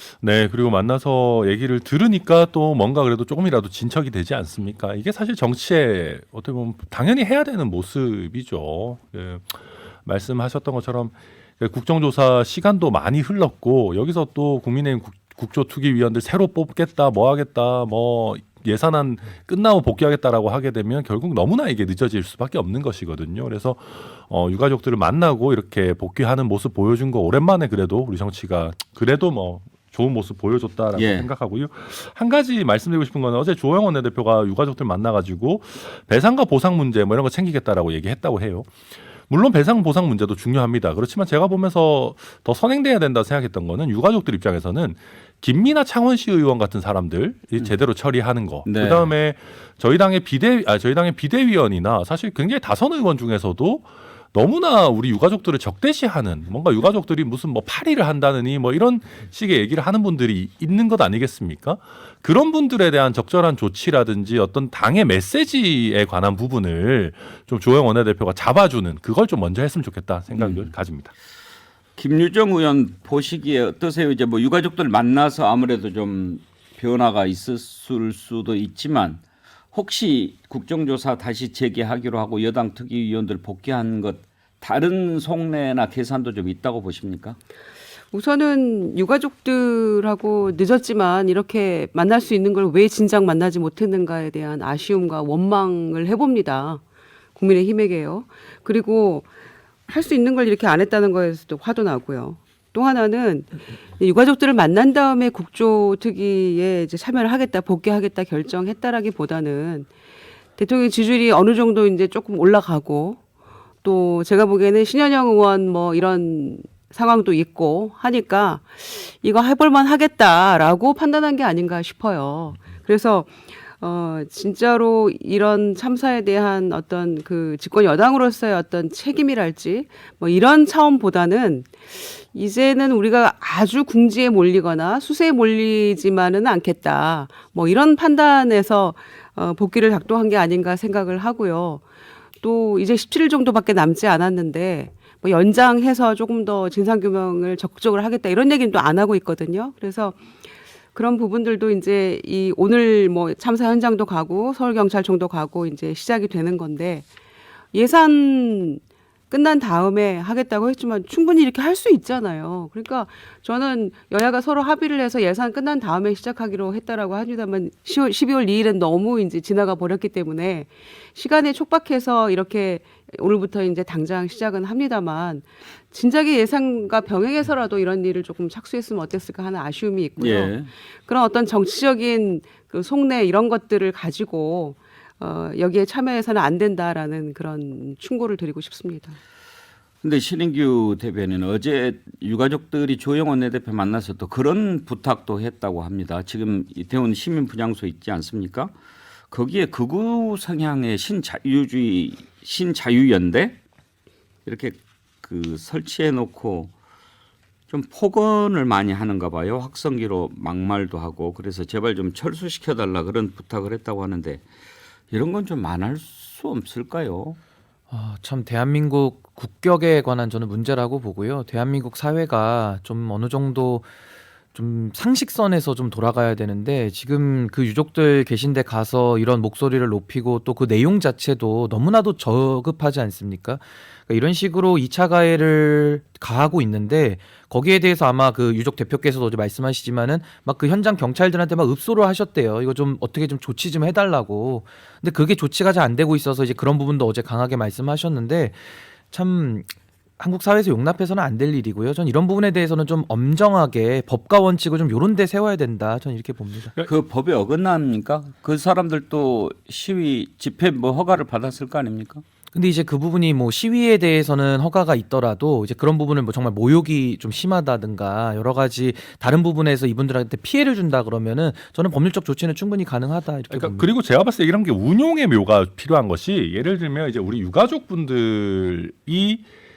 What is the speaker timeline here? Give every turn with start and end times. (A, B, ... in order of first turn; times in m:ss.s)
0:00.2-0:38.7 A
0:31.0-0:31.3 B
0:39.3-1:11.1 A
0:48.6-0:49.1 B
1:10.3-1:10.7 B
1:12.0-1:19.2 B
1:19.7-1:27.4 B
1:28.1-1:36.8 C
1:37.4-1:39.3 C
1:39.9-1:49.9 C
1:50.6-1:53.2 C
1:53.8-2:21.8 C
2:22.4-2:30.2 C
2:30.9-2:37.0 C
2:37.7-3:00.5 C
3:00.2-3:00.7 B
3:01.0-3:09.2 C
3:10.0-3:18.7 B
3:19.3-3:23.6 B
3:24.4-3:26.7 B
3:27.7-3:34.4 B
3:35.1-3:37.4 B
3:37.9-3:43.9 D
3:44.5-4:08.6 D
4:09.1-4:16.7 D
4:16.8-4:22.2 B
4:22.5-4:33.9 D
4:33.5-4:39.4 A